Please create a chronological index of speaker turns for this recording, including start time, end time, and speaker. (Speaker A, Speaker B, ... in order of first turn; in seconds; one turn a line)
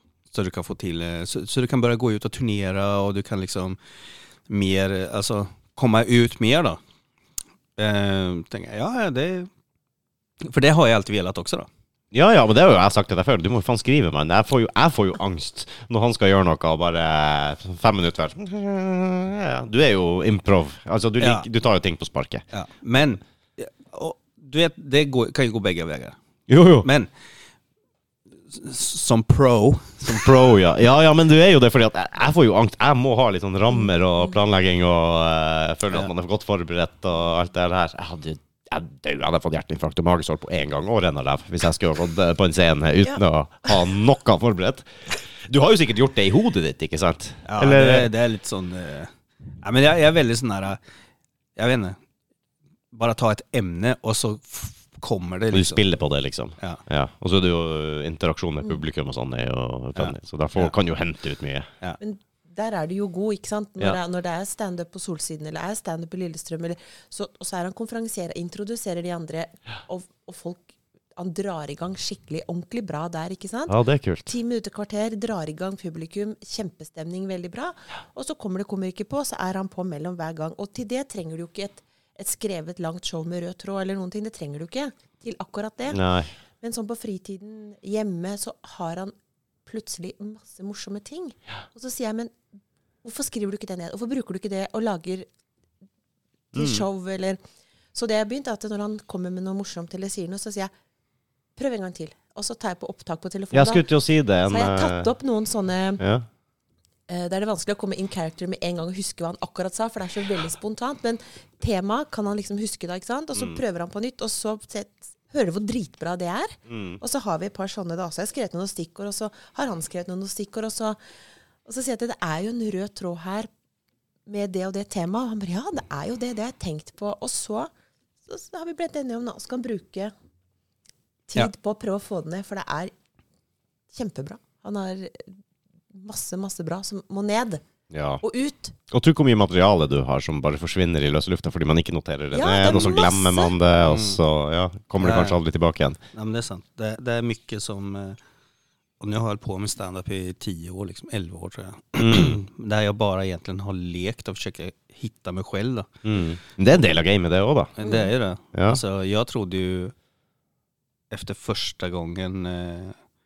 Speaker A: 0.3-3.8
Speaker A: 4.5-6.8
Speaker A: 7.8-9.5
Speaker A: 10.4-11.7
Speaker B: 12.1-22.4
Speaker A: 21.2-21.4
Speaker A: 22.5-26.1
Speaker B: 26.5-26.9
Speaker A: 26.8-27.1
Speaker A: 28.5-30.3
Speaker B: 30.0-44.9
Speaker B: 45.4-48.1
Speaker A: 47.5-49.1
Speaker A: 49.6-50.8
Speaker A: 51.6-52.0
Speaker A: 52.9-55.8
Speaker B: 55.5-61.7
Speaker A: 60.0-60.8
Speaker C: 62.0-86.0
Speaker B: 73.7-74.3
Speaker B: 85.9-86.3
Speaker C: 86.6-89.1
Speaker C: 89.7-92.3
Speaker C: 93.0-95.3
Speaker C: 96.5-97.4
Speaker B: 96.5-96.8
Speaker C: 97.9-100.7
Speaker C: 101.6-103.9
Speaker B: 103.5-105.1
Speaker C: 104.5-106.0
Speaker B: 106.0-106.3
Speaker C: 107.1-121.0
Speaker B: 113.3-113.6
Speaker B: 116.7-117.0
Speaker C: 121.6-123.5
Speaker C: 124.3-127.7
Speaker C: 128.3-130.1
Speaker C: 131.3-132.9
Speaker C: 133.9-135.3
Speaker C: 135.9-137.6
Speaker B: 137.9-138.2
Speaker C: 138.2-138.8
Speaker B: 138.9-146.0
Speaker C: 142.3-143.6
Speaker A: 143.8-144.2
Speaker A: 145.0-145.4
Speaker A: 146.1-148.2
Speaker A: 149.0-156.0
Speaker B: 152.0-152.4
Speaker B: 156.1-157.8
Speaker A: 157.8-159.9
Speaker C: 157.8-158.1
Speaker B: 158.5-158.8
Speaker A: 161.1-162.9